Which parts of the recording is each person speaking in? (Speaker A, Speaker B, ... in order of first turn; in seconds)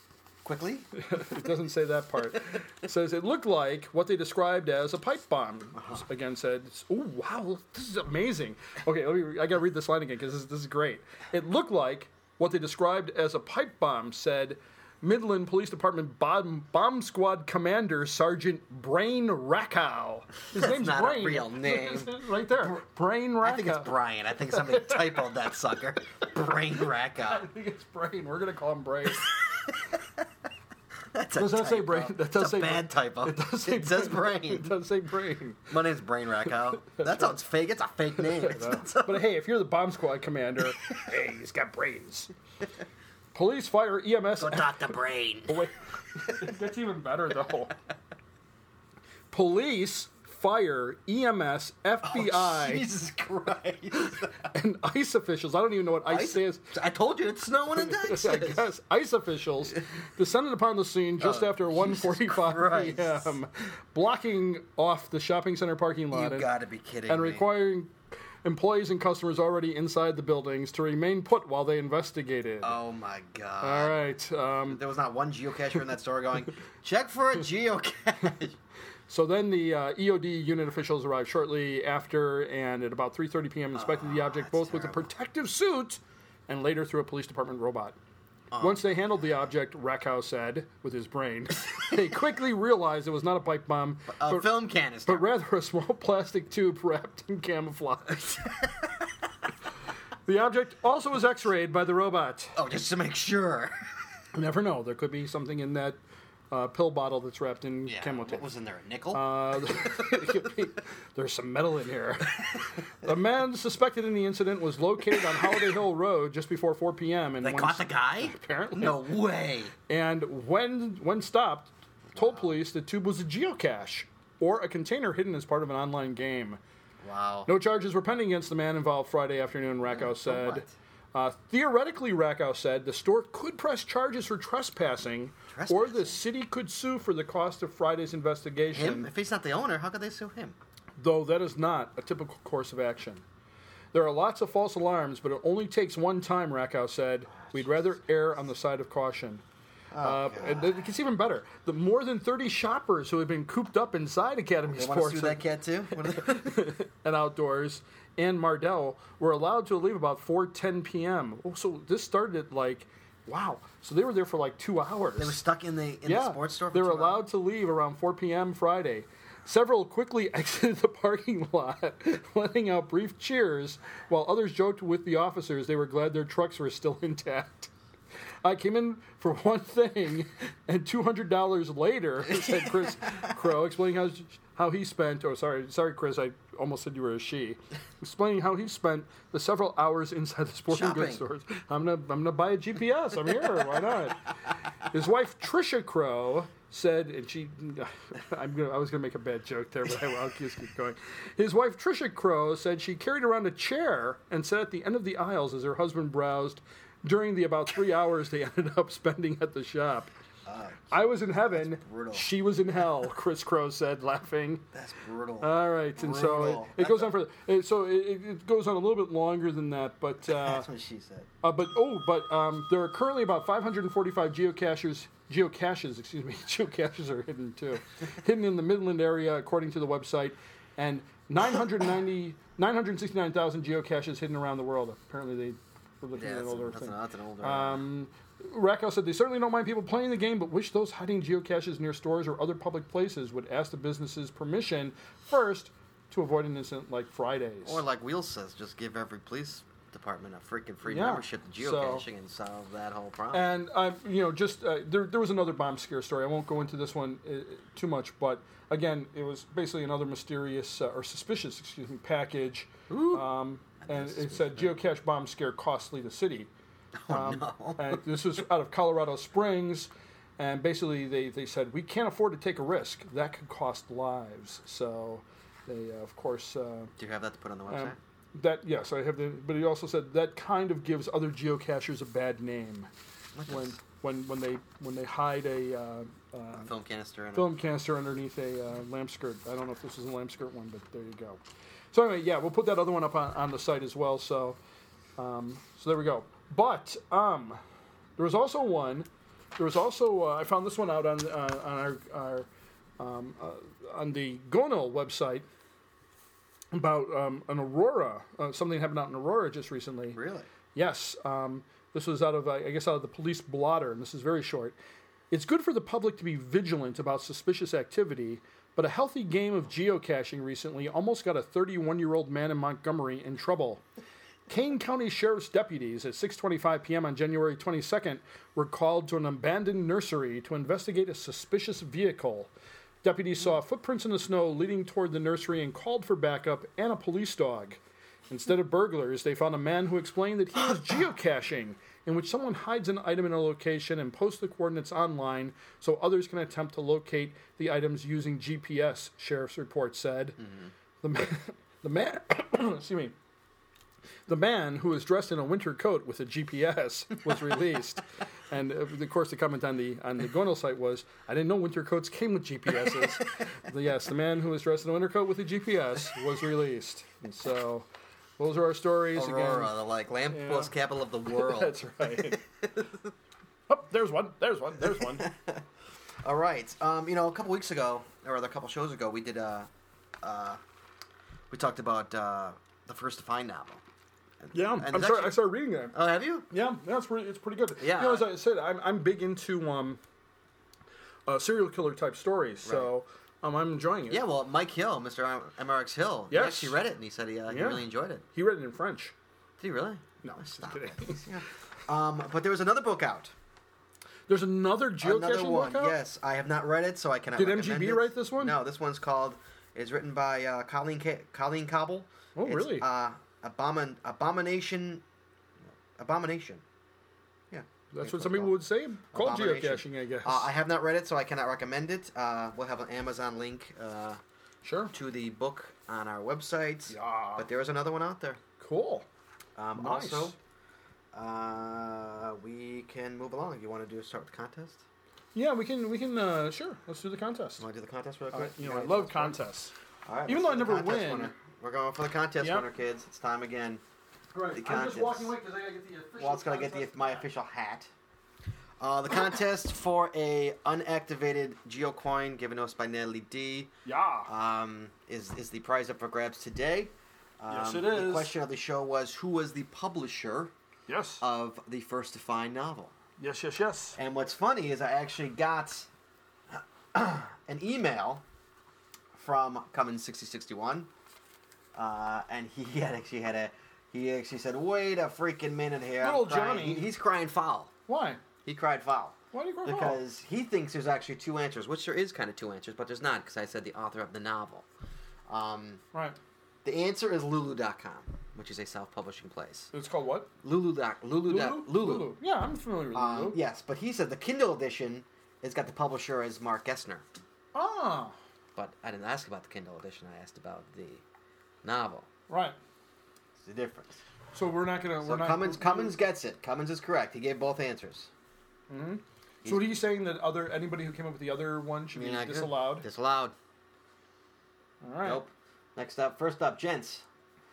Speaker A: 0.4-0.9, 5.7-6.0, 20.5-22.8, 23.4-27.5, 29.3-29.8, 31.1-34.7, 35.7-39.3, 44.4-45.6, 52.0-54.5, 56.1-58.7, 61.2-63.3, 66.1-67.5, 72.6-74.0, 74.7-78.6, 83.7-85.1, 88.5-88.9, 94.1-95.3, 102.5-103.7, 107.8-110.1, 117.4-119.7, 122.1-122.5, 127.0-127.5, 129.9-130.7, 135.5-136.2, 138.7-140.6, 149.9-150.7, 154.7-156.7, 165.2-167.2, 190.7-191.2, 210.4-212.3, 214.7-217.1, 220.2-221.3, 236.1-237.8, 247.6-253.5, 262.9-264.7, 266.9-268.0, 277.0-278.0, 283.3-283.8, 286.5-287.5, 310.1-310.5, 350.4-350.7, 369.1-372.9, 375.1-375.6, 376.2-379.7, 380.2-380.6, 381.5-383.8, 384.4-385.4, 385.9-386.5, 387.8-388.3, 392.6-392.9, 394.1-398.2, 399.6-403.3, 405.0-415.0, 415.7-416.6, 417.5-418.5, 419.1-424.2, 424.9-428.4, 429.6-430.4, 431.1-434.8, 437.6-439.4, 440.1-443.8, 444.5-445.3, 446.2-447.9, 448.8-453.7, 454.2-460.5, 461.2-462.9, 463.9-465.9, 466.5-468.2, 469.1-470.9, 471.7-477.7, 478.4-484.6, 485.3-485.8, 486.6-489.7, 490.4-492.1, 492.9-497.0, 498.6-501.0, 501.6-502.1, 503.4-504.0, 505.0-508.1, 509.4-509.7, 511.9-513.3, 515.0-517.0
Speaker B: 0.9-23.9, 24.5-25.3, 27.2-29.3, 31.4-35.7, 36.9-37.4, 38.2-42.3, 43.3-44.9, 45.5-47.7, 49.3-52.9, 54.5-56.6, 57.7-66.5, 67.1-72.8, 73.6-74.8, 79.1-88.0, 88.6-94.5, 95.0-98.4, 100.2-102.5, 104.3-106.0, 106.5-108.4, 109.1-119.1, 119.9-126.6, 127.5-139.1, 141.0-143.2, 143.9-149.4, 150.0-165.4, 166.0-177.7, 178.4-210.1, 210.9-214.6, 215.4-220.7, 221.4-247.8, 250.8-252.1, 253.3-266.5, 267.1-276.9, 277.7-282.9, 283.5-286.7, 287.3-291.4, 291.9-294.6, 295.2-297.6, 298.2-302.5, 303.0-305.4, 306.7-310.2, 310.7-314.8, 315.3-323.8, 324.5-332.5, 333.0-350.4, 351.0-353.1, 354.3-367.9, 368.4-369.7, 370.3-370.7, 371.3-372.4, 373.7-375.3, 384.5-385.9, 386.5-390.0, 391.3-394.2, 396.3-396.8, 397.5-399.1, 400.2-401.2, 404.3-405.9, 407.4-408.6, 412.4-412.9, 417.9-420.5, 424.6-424.9, 426.9-427.5, 428.6-429.1, 429.8-430.3, 435.3-437.6, 438.3-439.7, 440.2-441.3, 442.4-442.7, 444.3-447.2, 453.8-454.3, 457.5-458.3, 460.9-461.2, 463.2-464.0, 476.0-476.9, 477.9-478.2, 479.3-480.0, 485.9-486.2, 489.7-490.3, 491.2-493.4, 497.5-498.1, 502.3-502.6, 504.3-506.0, 508.7-512.8, 514.8-515.2